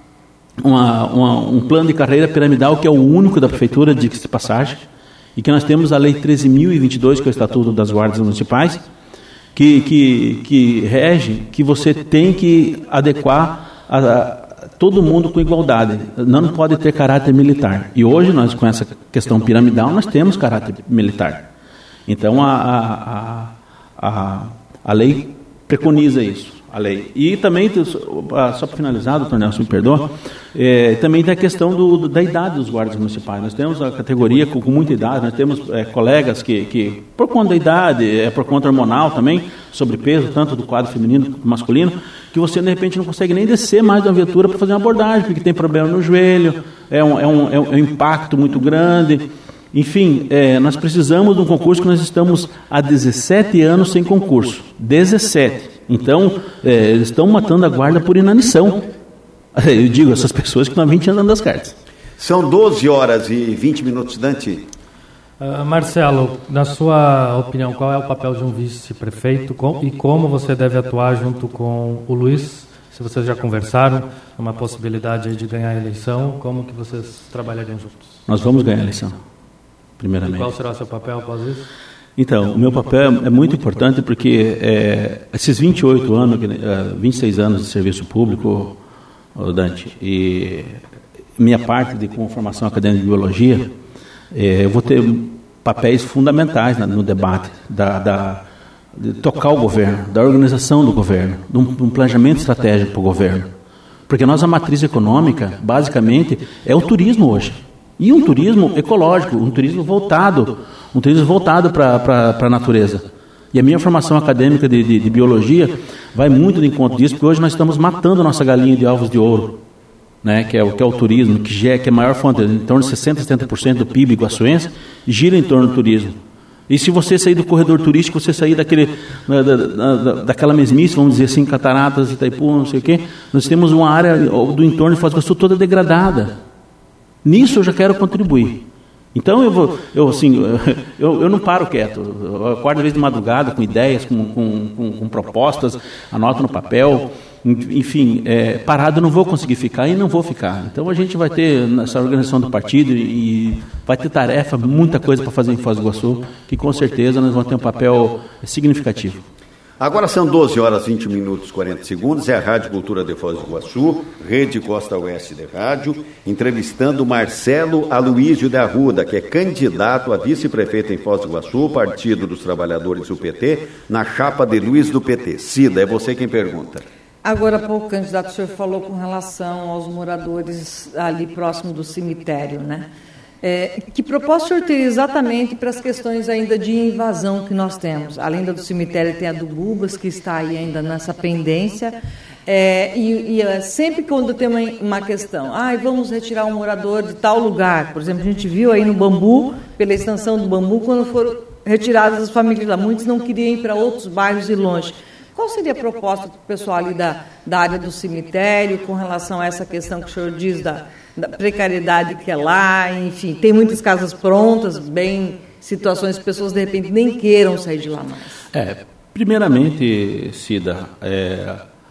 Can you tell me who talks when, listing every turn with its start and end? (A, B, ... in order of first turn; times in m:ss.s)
0:00.6-0:04.8 A
0:05.4-0:08.8 A
0:09.5-0:21.5 A
0:22.1-0:58.9 A
0:59.6-1:01.8 A
1:02.2-1:04.7 B
1:05.4-1:18.1 C
1:18.3-1:19.2 A
1:20.0-1:20.5 A
1:20.2-1:21.7 C
1:22.2-1:28.8 A
1:29.4-1:30.8 A
1:31.4-1:33.7 A
1:34.3-1:38.4 A
1:39.0-1:43.5 A
1:44.1-1:59.6 A
2:00.2-2:06.2 A
2:06.7-2:16.4 A
2:17.2-2:39.2 A
2:39.8-2:56.8 B
2:57.2-3:02.9 D
3:03.4-3:38.4 D
3:38.5-3:41.6 A